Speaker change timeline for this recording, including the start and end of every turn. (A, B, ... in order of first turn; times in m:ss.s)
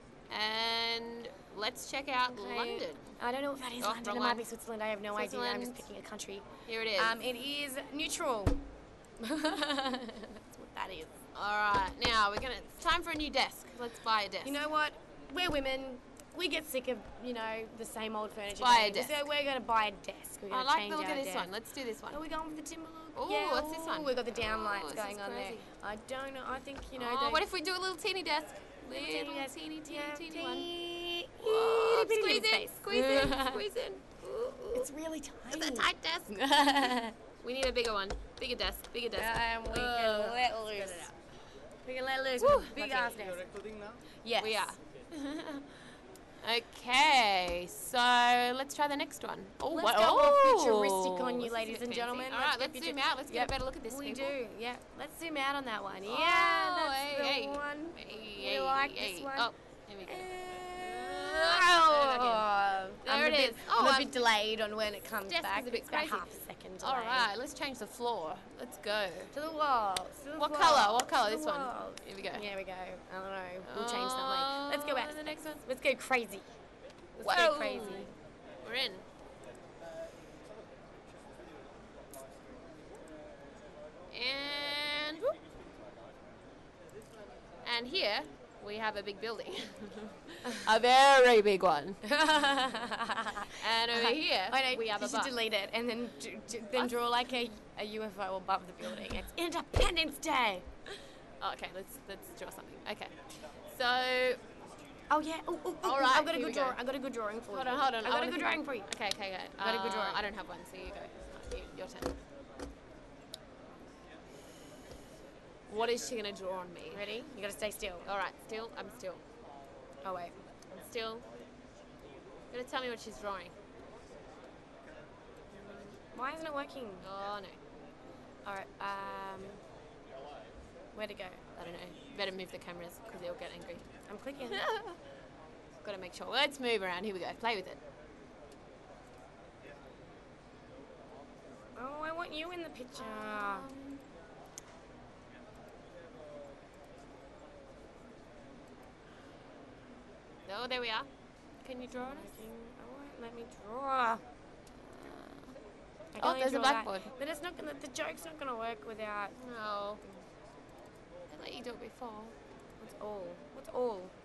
0:00.3-0:03.2 A
0:02.3-0:08.6 B
0:03.8-0:04.4 A
0:05.1-0:05.8 A
0:06.7-0:07.2 A
0:09.2-0:11.2 B
0:11.3-0:14.6 A
0:14.4-0:21.5 B
0:18.6-0:19.2 A
0:20.5-0:22.2 A
0:22.1-0:27.4 B
0:23.2-0:25.6 A
0:27.0-0:30.7 A
0:28.9-0:33.6 B
0:31.4-0:34.9 A
0:34.7-0:37.2 B
0:35.5-0:36.4 A
0:37.4-0:41.1 A
0:39.1-0:41.1 B
0:41.8-0:43.6 B
0:42.4-0:43.2 A
0:44.2-0:44.7 B
0:44.4-0:45.8 A
0:46.4-0:54.4 A
0:49.7-0:59.5 B
0:56.1-1:02.5 A
1:00.0-1:07.3 B
1:03.0-1:04.1 A
1:05.3-1:09.3 A
1:09.3-1:16.5 B
1:10.4-1:12.4 A
1:13.6-1:15.6 A
1:17.2-1:18.1 B
1:17.2-1:19.0 A
1:24.1-1:25.4 A
1:27.6-1:32.0 A
1:32.0-1:40.7 B
1:33.6-1:35.3 A
1:41.4-1:44.4 A
1:45.1-1:48.9 B
1:45.8-1:46.8 A
1:47.5-1:52.1 A
1:49.6-1:50.2 B
1:55.7-1:57.1 A
1:56.9-1:58.1 B
1:58.0-1:59.2 A
2:00.0-2:00.4 B
2:00.7-2:01.2 A
2:02.5-2:03.5 A
2:05.6-2:07.1 B
2:07.0-2:07.6 A
2:08.4-2:09.6 B
2:10.9-2:11.4 B
2:11.6-2:15.0 A
2:14.1-2:14.6 B
2:15.8-2:17.8 A
2:21.8-2:23.7 B
2:23.0-2:24.0 A
2:30.5-2:31.1 A
2:31.6-2:32.3 A
2:32.0-2:34.2 B
2:35.0-2:35.6 A
2:36.2-2:39.4 B
2:36.2-2:37.1 A
2:39.4-2:40.0 A
2:41.3-2:42.4 A
2:42.8-2:44.1 B